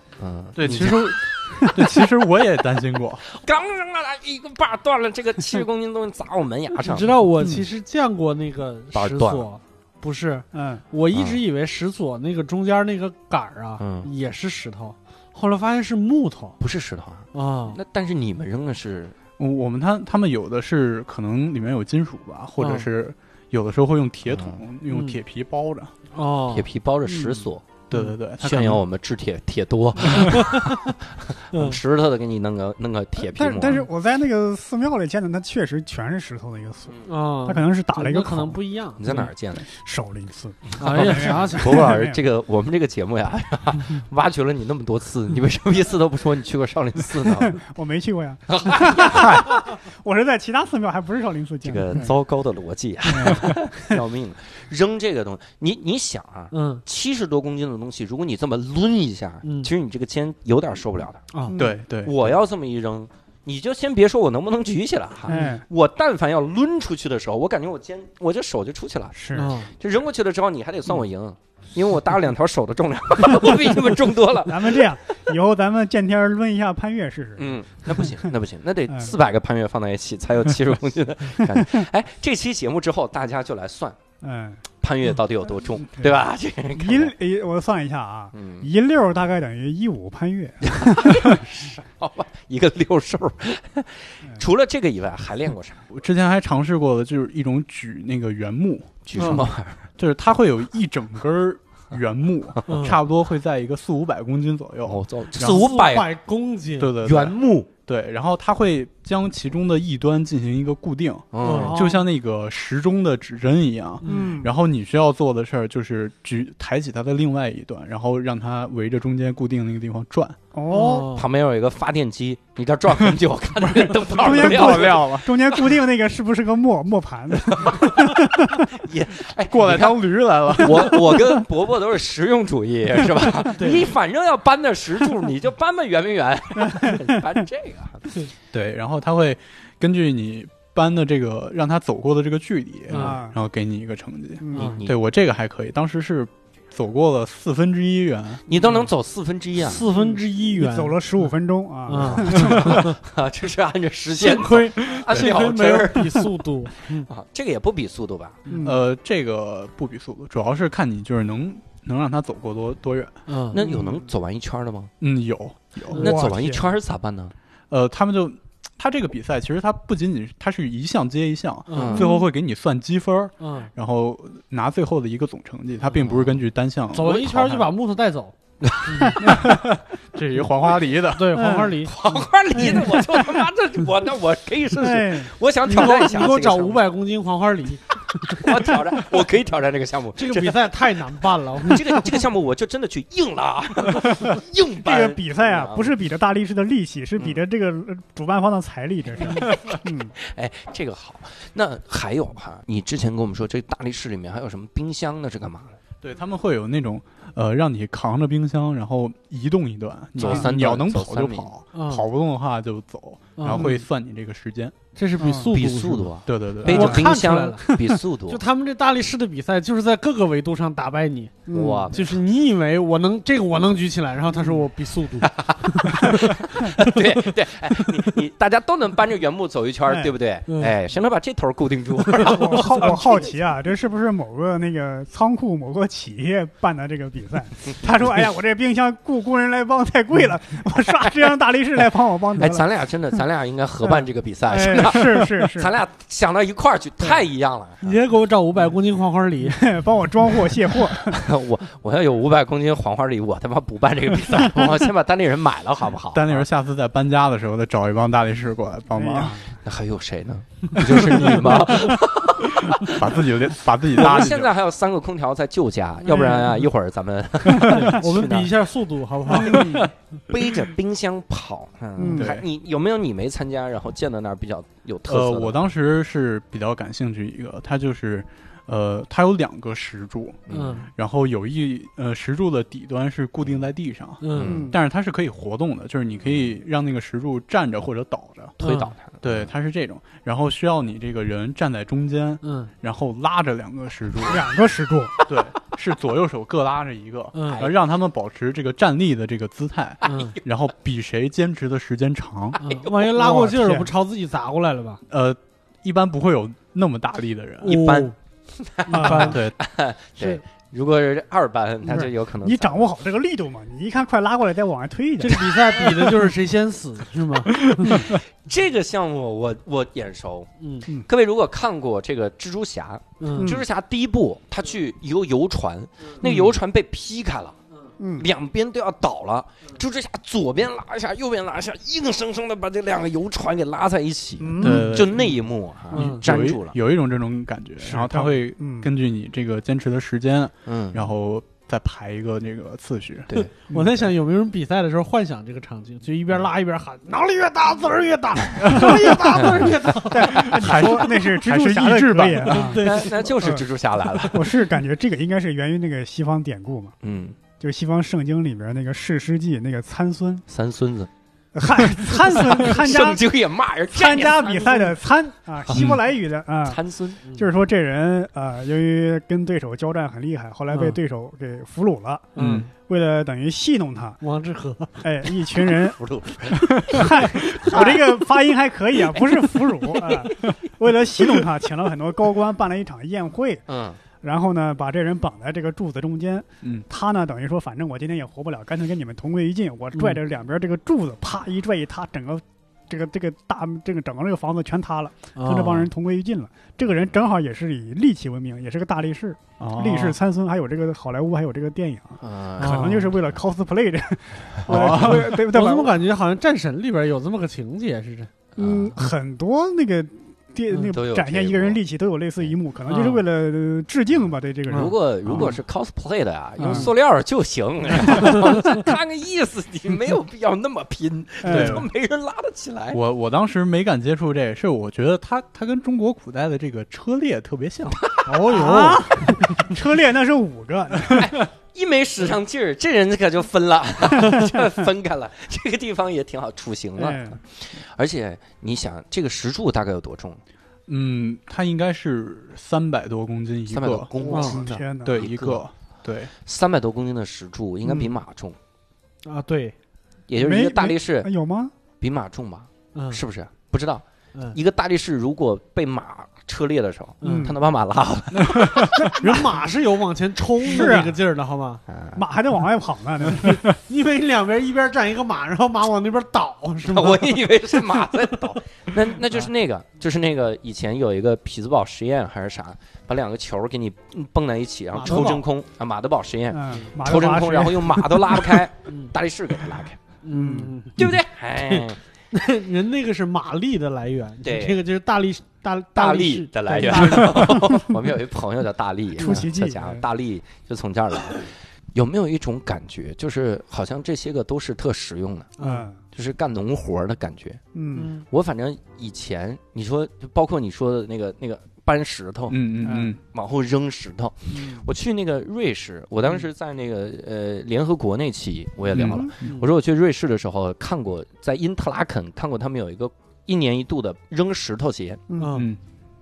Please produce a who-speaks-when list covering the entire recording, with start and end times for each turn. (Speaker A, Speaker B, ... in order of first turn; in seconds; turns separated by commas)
Speaker A: 0.2-1.2, Speaker B: 0.6-3.2, Speaker C: 1.6-2.0, Speaker A: 3.3-7.2, Speaker D: 6.8-16.6, Speaker B: 7.4-7.7, Speaker A: 8.9-9.5, Speaker C: 10.5-10.8, Speaker A: 11.1-11.4, Speaker A: 13.8-14.1, Speaker A: 16.6-19.1, Speaker D: 17.3-17.8, Speaker B: 19.4-25.9, Speaker D: 22.6-22.9, Speaker A: 24.3-24.6, Speaker D: 24.9-25.2, Speaker D: 26.1-26.7, Speaker A: 26.5-27.6, Speaker C: 27.1-27.5, Speaker B: 27.9-28.8, Speaker A: 28.4-33.8, Speaker D: 30.2-30.8, Speaker D: 31.5-31.8, Speaker C: 33.2-38.6, Speaker D: 37.1-39.0, Speaker A: 39.0-39.7, Speaker C: 39.7-42.2, Speaker D: 40.8-41.9, Speaker A: 40.8-47.6, Speaker C: 47.4-52.0, Speaker A: 48.5-49.5, Speaker A: 51.6-61.3, Speaker C: 53.1-54.0, Speaker D: 56.5-56.8, Speaker D: 59.4-59.7, Speaker C: 61.5-61.8, Speaker B: 61.5-62.1, Speaker A: 62.0-74.9, Speaker C: 65.3-65.7, Speaker C: 69.1-69.5, Speaker D: 69.3-69.7, Speaker C: 74.5-78.2, Speaker A: 77.4-84.0, Speaker C: 78.9-79.2, Speaker C: 84.2-84.6, Speaker A: 84.7-87.1, Speaker C: 86.0-86.2, Speaker C: 86.8-91.4, Speaker A: 88.3-88.7, Speaker A: 90.6-95.8, Speaker B: 95.9-99.5, Speaker A: 99.0-99.9, Speaker D: 99.2-99.5, Speaker B: 100.0-105.6, Speaker D: 102.7-103.0, Speaker A: 104.8-106.1, Speaker D: 105.4-107.0, Speaker B: 106.8-120.4, Speaker A: 107.0-107.7, Speaker A: 111.3-111.8, Speaker D: 111.4-112.0, Speaker D: 114.0-114.3, Speaker C: 114.1-114.5, Speaker C: 120.5-121.1, Speaker D: 120.7-121.2, Speaker A: 121.1-125.6, Speaker C: 124.1-128.8, Speaker B: 124.1-125.3, Speaker A: 127.5-128.2, Speaker A: 128.7-138.1, Speaker B: 129.5-131.4, Speaker D: 133.6-133.8, Speaker C: 136.6-137.2, Speaker B: 138.5-148.4, Speaker D: 142.9-143.2, Speaker C: 142.9-143.4, Speaker C: 144.4-144.8, Speaker A: 144.5-145.0, Speaker A: 148.5-149.9, Speaker D: 148.5-148.8, Speaker D: 149.6-151.0, Speaker C: 149.9-152.9, Speaker D: 151.9-152.9, Speaker A: 151.9-156.2, Speaker B: 152.3-152.8, Speaker D: 154.2-157.1, Speaker B: 154.8-155.3, Speaker A: 157.1-158.4, Speaker C: 158.5-158.8, Speaker B: 158.6-163.2, Speaker D: 163.3-163.6, Speaker A: 163.5-164.9, Speaker C: 163.6-164.1, Speaker B: 165.0-166.0, Speaker D: 165.9-166.2, Speaker C: 165.9-166.7, Speaker A: 166.0-167.3, Speaker B: 167.7-177.7, Speaker D: 171.7-172.2, Speaker A: 171.7-172.1, Speaker C: 171.9-172.3, Speaker D: 173.4-173.7, Speaker A: 175.9-176.4, Speaker D: 176.9-178.3, Speaker A: 178.6-179.2, Speaker D: 178.9-179.2, Speaker B: 179.2-181.4, Speaker D: 181.1-182.9, Speaker C: 181.3-181.8, Speaker A: 181.8-186.9, Speaker C: 182.5-183.4, Speaker C: 184.8-185.3, Speaker D: 185.7-188.5, Speaker A: 188.3-190.7, Speaker D: 190.2-192.2, Speaker A: 191.6-195.9, Speaker C: 194.8-200.2, Speaker A: 200.2-205.8, Speaker B: 206.0-214.8, Speaker A: 210.2-211.5, Speaker D: 211.7-212.1, Speaker D: 213.4-213.8, Speaker D: 215.0-216.1, Speaker C: 215.2-215.5, Speaker A: 215.5-218.4, Speaker B: 216.3-217.1, Speaker D: 216.6-226.4, Speaker C: 221.5-221.9, Speaker A: 221.5-222.2, Speaker A: 225.2-233.3, Speaker C: 229.9-230.1, Speaker D: 232.1-232.8, Speaker C: 232.2-242.7, Speaker A: 242.4-247.9, Speaker C: 243.9-245.7, Speaker D: 247.8-249.7, Speaker C: 249.5-251.2, Speaker A: 251.0-256.5, Speaker B: 256.1-259.4, Speaker C: 258.9-259.6, Speaker A: 259.6-263.1, Speaker B: 260.9-262.0, Speaker B: 262.6-264.5, Speaker A: 263.9-268.5, Speaker D: 266.1-266.6, Speaker D: 267.5-269.9, Speaker A: 269.3-275.6, Speaker C: 269.4-269.9, Speaker C: 272.0-272.3, Speaker B: 272.0-272.5, Speaker B: 275.1-288.6, Speaker A: 280.5-280.8, Speaker D: 280.5-280.9, Speaker D: 284.2-284.6, Speaker A: 284.3-284.7, Speaker C: 284.4-284.8, Speaker A: 288.6-289.5, Speaker D: 288.6-288.9, Speaker B: 289.2-294.5, Speaker D: 292.4-292.7, Speaker C: 294.2-295.1, Speaker B: 295.3-302.6, Speaker D: 297.3-297.7, Speaker D: 300.0-300.4, Speaker D: 302.6-305.0, Speaker A: 302.7-303.0, Speaker C: 303.1-303.9, Speaker B: 305.1-307.8, Speaker D: 307.6-308.1, Speaker A: 307.7-312.9, Speaker D: 308.9-309.4, Speaker C: 308.9-309.4, Speaker B: 309.1-309.6, Speaker C: 311.9-315.6, Speaker D: 315.2-318.1, Speaker B: 317.7-318.2, Speaker A: 317.9-320.5, Speaker D: 320.6-320.9, Speaker A: 321.1-327.6, Speaker D: 323.2-323.6, Speaker C: 323.4-323.6, Speaker D: 326.2-326.6, Speaker C: 328.0-328.3, Speaker A: 328.2-336.8, Speaker C: 334.4-335.0, Speaker B: 334.6-335.3, Speaker D: 335.9-336.2, Speaker B: 335.9-344.1, Speaker C: 337.8-338.9, Speaker A: 340.6-341.0, Speaker D: 343.7-350.9, Speaker B: 348.6-349.6, Speaker C: 348.7-349.6, Speaker C: 350.1-352.9, Speaker B: 350.2-352.7, Speaker D: 352.4-353.4, Speaker A: 352.8-354.6, Speaker C: 353.4-353.6, Speaker C: 354.3-356.9, Speaker A: 357.0-357.4, Speaker C: 357.6-360.4, Speaker A: 360.5-361.1, Speaker C: 361.6-363.2, Speaker A: 362.2-365.0, Speaker C: 363.9-366.8, Speaker B: 365.7-366.0, Speaker A: 366.6-367.2, Speaker C: 367.4-374.2, Speaker D: 370.7-371.0, Speaker D: 372.4-372.7, Speaker B: 372.4-372.7, Speaker D: 374.2-375.0, Speaker C: 375.0-383.6, Speaker A: 375.9-378.1, Speaker A: 379.1-380.3, Speaker A: 383.7-384.0, Speaker C: 384.2-405.9, Speaker B: 386.6-386.9, Speaker D: 389.9-390.2, Speaker D: 395.4-395.9, Speaker B: 399.6-400.2, Speaker A: 402.2-403.3, Speaker D: 402.6-403.1, Speaker B: 404.7-405.4, Speaker D: 404.7-408.3, Speaker A: 408.6-409.0, Speaker C: 408.6-415.5, Speaker A: 410.9-411.8, Speaker D: 412.9-413.2, Speaker D: 414.7-415.5, Speaker A: 414.7-423.0, Speaker D: 416.6-416.9, Speaker C: 416.6-416.9, Speaker C: 418.0-418.4, Speaker C: 421.4-421.9, Speaker B: 421.5-421.9, Speaker B: 422.9-428.0, Speaker A: 428.0-428.3, Speaker D: 428.3-429.6, Speaker C: 428.5-431.3, Speaker A: 431.1-440.4, Speaker C: 434.3-434.6, Speaker C: 437.0-437.4, Speaker B: 440.9-444.1, Speaker A: 443.7-445.7, Speaker C: 444.2-445.2, Speaker D: 444.3-444.7, Speaker B: 445.0-446.3, Speaker A: 446.4-448.6, Speaker D: 449.2-449.8, Speaker A: 450.3-451.3, Speaker C: 450.4-451.7, Speaker A: 452.0-459.1, Speaker D: 452.9-453.2, Speaker D: 457.2-457.5, Speaker C: 457.2-457.6, Speaker B: 458.4-458.9, Speaker C: 459.1-459.4, Speaker D: 459.1-461.8, Speaker C: 460.6-461.2, Speaker A: 461.9-462.2, Speaker C: 462.2-463.7, Speaker D: 463.3-468.0, Speaker A: 466.9-480.0, Speaker D: 474.9-475.4, Speaker C: 476.5-478.6, Speaker D: 480.2-481.1, Speaker C: 480.3-480.8, Speaker A: 481.0-482.0, Speaker D: 481.6-487.8, Speaker A: 484.4-484.8, Speaker A: 485.9-495.5, Speaker C: 487.4-487.8, Speaker C: 489.2-490.0, Speaker D: 495.6-495.9, Speaker C: 495.6-496.0, Speaker A: 496.1-497.6, Speaker C: 497.7-498.1, Speaker D: 497.9-498.2, Speaker A: 498.3-502.6, Speaker B: 502.5-503.2, Speaker C: 502.9-503.2, Speaker A: 503.3-515.2, Speaker C: 504.5-504.9, Speaker B: 508.9-509.5, Speaker C: 509.0-509.3, Speaker D: 509.4-509.7, Speaker C: 515.3-515.7, Speaker D: 515.4-515.7, Speaker B: 515.5-515.8